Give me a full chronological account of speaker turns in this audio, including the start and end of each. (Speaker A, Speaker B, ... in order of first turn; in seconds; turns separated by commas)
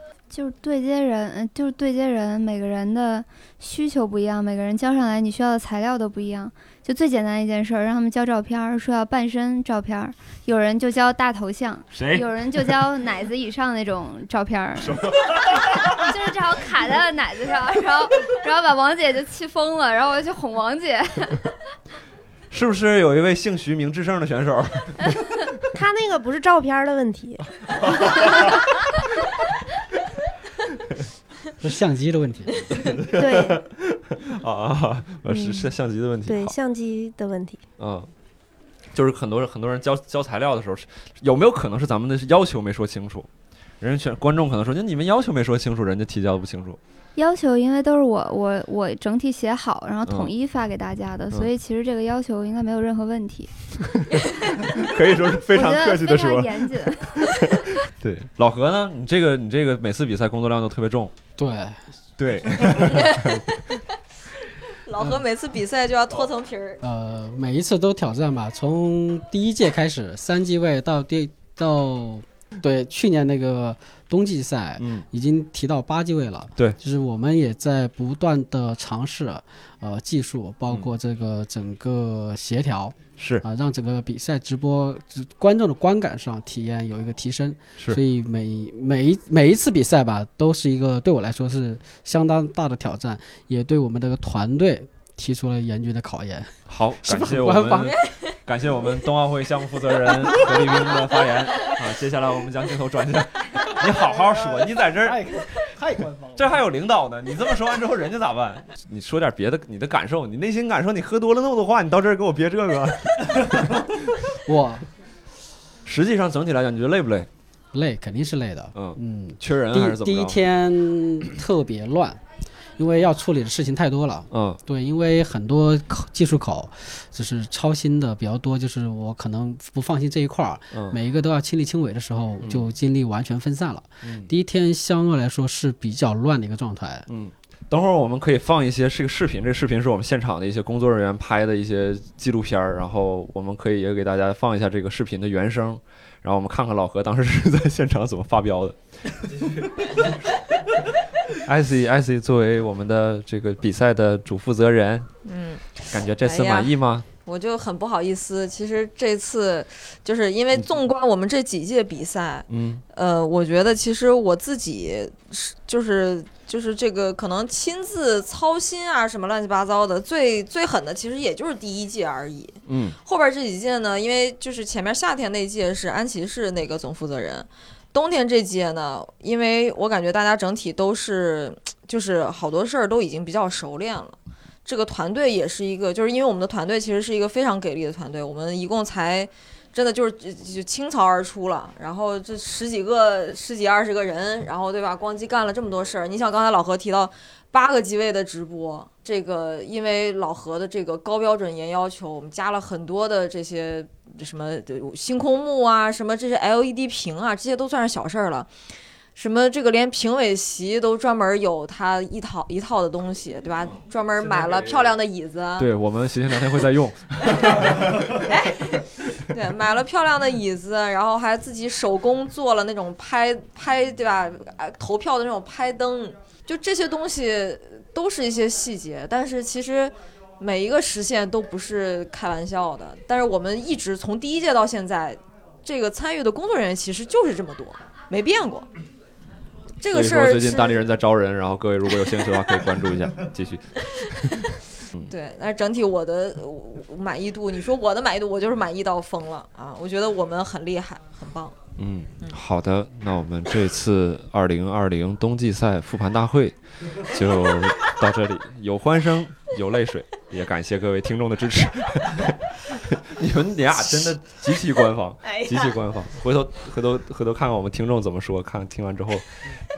Speaker A: 0.3-15.0, Speaker B: 11.9-12.3, Speaker B: 14.8-15.9, Speaker A: 15.7-21.5, Speaker B: 22.5-25.2, Speaker C: 25.7-27.4, Speaker D: 31.6-32.6, Speaker B: 32.7-36.5, Speaker C: 33.1-33.6, Speaker C: 35.3-35.6, Speaker C: 36.2-37.6, Speaker B: 37.8-38.1, Speaker B: 38.9-43.3, Speaker B: 43.8-46.8, Speaker A: 47.1-53.5, Speaker B: 50.0-50.3, Speaker B: 54.8-61.1, Speaker A: 55.5-57.5, Speaker D: 61.4-61.9, Speaker B: 62.2-63.4, Speaker E: 62.8-63.9, Speaker E: 64.7-66.8, Speaker D: 66.8-97.9, Speaker B: 74.8-75.0, Speaker B: 83.2-83.4, Speaker B: 96.7-105.2, Speaker E: 98.0-98.3, Speaker F: 104.1-106.6, Speaker B: 106.3-114.2, Speaker D: 114.4-114.8, Speaker B: 115.8-117.3, Speaker D: 117.7-122.2, Speaker B: 118.7-120.4, Speaker D: 122.8-137.1, Speaker B: 124.3-124.6, Speaker B: 130.7-131.0, Speaker B: 132.4-132.7, Speaker B: 134.0-134.3, Speaker B: 137.1-148.8, Speaker B: 149.4-149.7, Speaker B: 151.3-155.1, Speaker E: 155.2-208.5, Speaker B: 155.9-157.1, Speaker B: 162.5-162.8, Speaker B: 172.7-173.0, Speaker E: 209.2-215.7, Speaker B: 215.6-218.2, Speaker E: 217.3-238.7, Speaker E: 239.8-240.8, Speaker B: 239.9-245.1, Speaker E: 245.1-251.6, Speaker B: 251.8-269.3